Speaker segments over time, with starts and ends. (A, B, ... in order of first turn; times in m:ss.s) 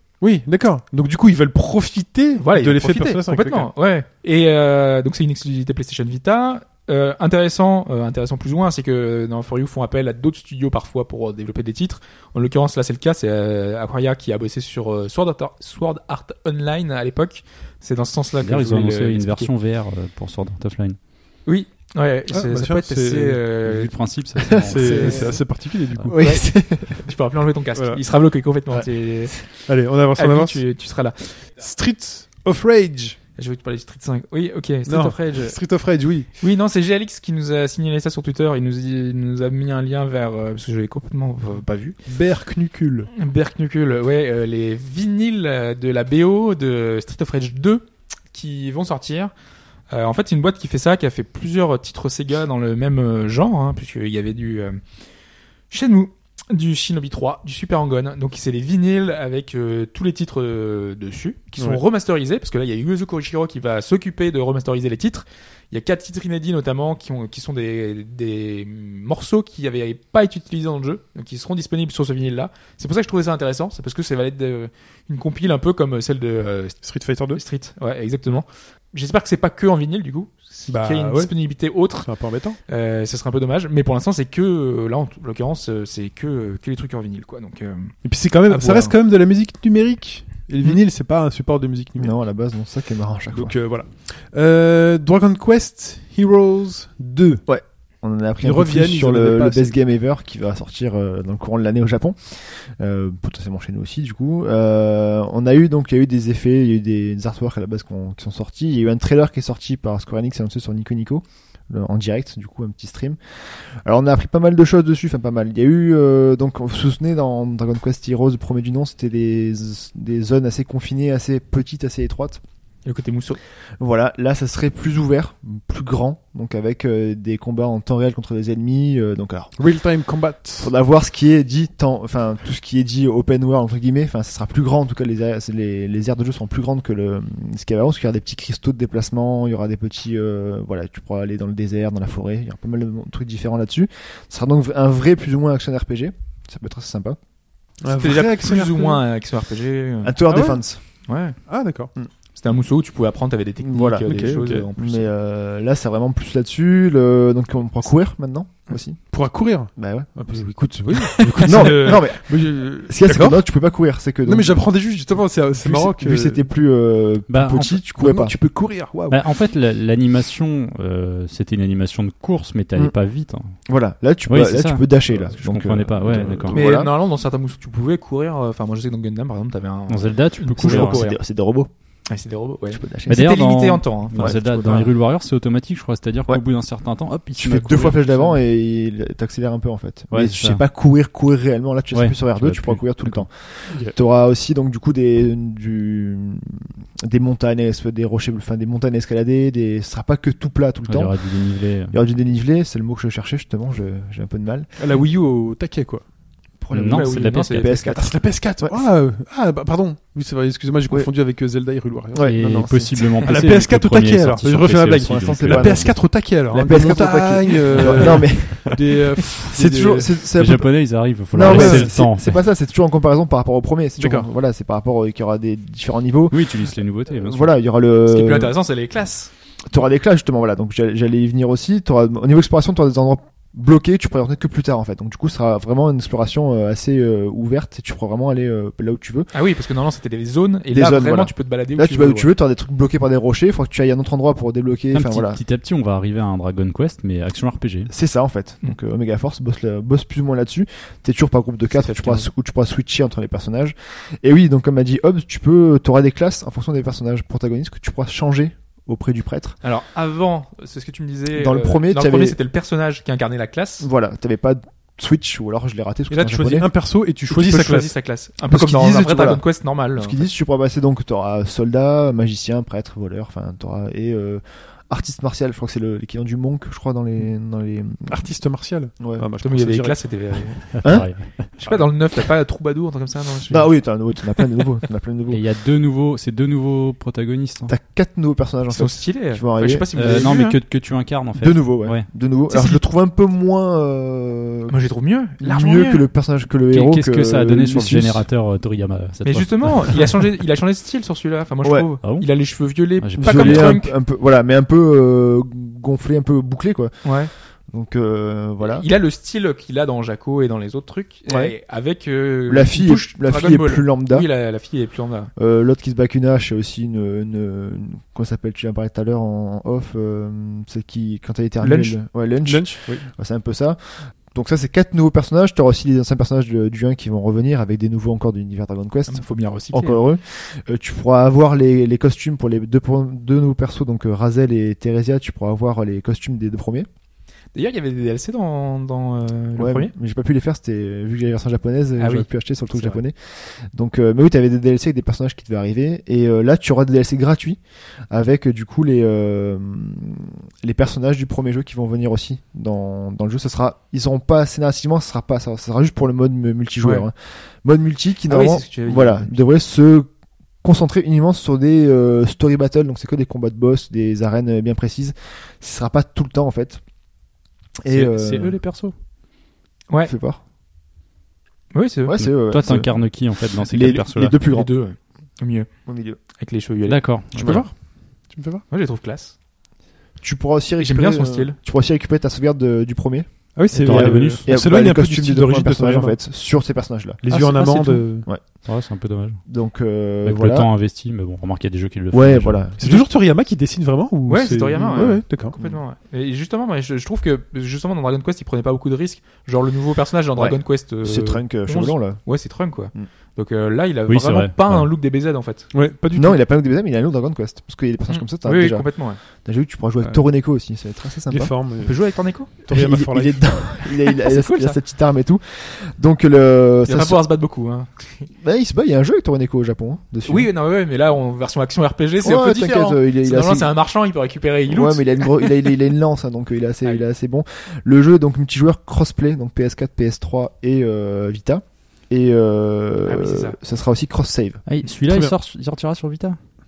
0:00.2-0:03.7 A
0:02.4-0:19.5 B
0:18.4-0:21.0 C
0:21.4-0:23.9 B
0:22.3-0:23.4 A
0:23.6-0:25.3 C
0:24.5-0:25.4 D
0:24.6-0:26.3 A
0:24.8-0:25.4 B
0:26.1-0:27.0 D
0:26.1-0:31.5 B
0:27.8-0:28.0 A
0:28.7-0:29.4 D
0:29.6-0:30.6 A
0:31.5-0:33.2 A
0:33.4-0:35.6 B
0:34.8-0:36.3 A
0:36.4-0:42.0 B
0:42.1-0:43.1 A
0:43.1-0:49.3 B
0:49.9-0:54.8 B
0:55.7-1:22.1 B
1:16.8-1:17.4 A
1:20.7-1:21.3 A
1:22.0-1:22.6 A
1:22.7-1:27.9 B
1:28.0-1:32.2 A
1:28.5-1:28.9 B
1:32.0-1:33.6 D
1:33.3-1:37.4 A
1:37.4-2:02.4 D
1:38.4-1:39.7 A
2:02.8-2:03.4 B
2:03.8-2:09.5 D
2:09.6-2:10.7 A
2:10.6-2:27.2 D
2:27.8-2:29.0 A
2:27.9-2:30.2 B
2:30.0-2:30.8 D
2:30.3-2:30.6 A
2:31.1-2:31.4 B
2:31.4-2:31.9 A
2:32.3-2:35.1 B
2:33.6-2:39.0 D
2:34.0-2:34.7 A
2:39.1-2:43.4 A
2:39.7-2:40.6 D
2:41.1-2:42.0 B
2:41.4-2:44.6 D
2:44.2-2:46.4 A
2:45.5-2:48.4 D
2:47.3-2:47.8 C
2:47.9-2:49.2 A
2:49.1-2:53.5 C
2:53.7-2:56.9 D
2:54.3-2:56.7 C
2:56.5-3:01.2 B
2:59.9-3:01.1 C
3:00.6-3:01.7 D
3:02.1-3:04.8 B
3:02.7-3:03.3 D
3:03.1-3:08.0 C
3:04.2-3:04.9 D
3:07.4-3:24.7 D
3:07.8-3:08.3 B
3:10.1-3:10.6 C
3:11.9-3:13.2 C
3:20.8-3:21.9 C
3:24.8-3:26.0 A
3:26.6-3:28.8 D
3:26.7-3:27.9 C
3:26.9-3:28.0 B
3:28.0-3:32.4 A
3:32.1-3:33.0 D
3:32.2-3:36.0 C
3:33.2-3:40.2 A
3:35.0-3:48.5 D
3:40.3-3:42.4 C
3:41.4-3:41.9 A
3:44.0-3:44.3 A
3:46.3-3:47.5 C
3:48.0-3:49.3 B
3:49.7-3:59.3 D
3:59.3-4:02.3 B
4:00.7-4:05.4 D
4:04.9-4:07.9 C
4:07.9-4:19.6 D
4:11.7-4:12.3 B
4:19.6-4:23.9 B
4:21.3-4:22.4 D
4:23.8-4:26.7 D
4:26.1-4:27.9 A
4:27.3-4:30.2 B
4:28.4-4:38.3 D
4:38.1-4:40.2 A
4:38.9-4:39.2 D
4:39.4-4:44.0 B
4:40.7-4:41.5 C
4:40.8-4:41.4 D
4:43.5-4:45.4 D
4:45.3-4:47.7 C
4:47.7-4:49.9 D
4:48.7-4:50.6 B
4:49.9-4:52.1 C
4:51.4-4:54.7 D
4:52.5-4:52.8 B
4:54.7-4:56.1 B
4:55.4-4:58.3 D
4:56.7-5:00.1 C
4:59.2-5:03.9 B
5:02.0-5:03.8 C
5:03.2-5:07.1 D
5:07.0-5:07.3 B
5:07.7-5:08.8 D
5:08.6-5:15.3 B
5:11.3-5:11.5 D
5:12.5-5:14.3 D
5:15.4-5:36.9 D
5:21.6-5:22.0 B
5:22.4-5:23.1 A
5:29.1-5:30.0 B
5:37.5-5:39.9 B
5:39.6-6:00.1 D
5:42.0-5:43.0 B
5:56.8-5:57.1 B
5:58.3-5:59.3 B
6:00.6-6:06.8 D
6:07.8-6:08.6 D
6:07.9-6:08.9 C
6:10.0-6:10.4 D
6:11.7-6:12.1 B
6:12.0-6:14.7 D
6:12.2-6:14.4 C
6:14.4-6:15.7 B
6:15.8-6:16.2 D
6:16.3-6:17.3 B
6:16.9-6:17.7 C
6:17.4-6:17.7 A
6:18.3-6:18.6 A
6:18.7-6:19.3 B
6:20.2-6:27.2 D
6:20.8-6:21.6 B
6:23.5-6:26.2 A
6:23.7-6:24.5 C
6:27.2-6:28.2 A
6:27.2-6:29.4 C
6:29.4-6:30.7 D
6:30.2-6:32.7 C
6:32.1-6:33.0 D
6:32.8-6:35.5 A
6:34.3-6:45.7 B
6:34.8-6:35.8 D
6:40.4-6:42.3 D
6:44.1-6:44.9 C
6:45.7-6:46.4 A
6:46.1-6:51.5 D
6:48.1-6:49.2 B
6:51.3-6:53.5 A
6:51.8-6:52.5 B
6:52.7-6:57.2 D
6:54.0-6:54.8 B
6:56.9-6:58.3 B
6:58.4-7:00.5 D
7:00.2-7:05.5 B
7:02.2-7:03.7 D
7:04.7-7:14.6 D
7:13.0-7:13.6 B
7:14.6-7:16.4 C
7:15.1-7:15.3 A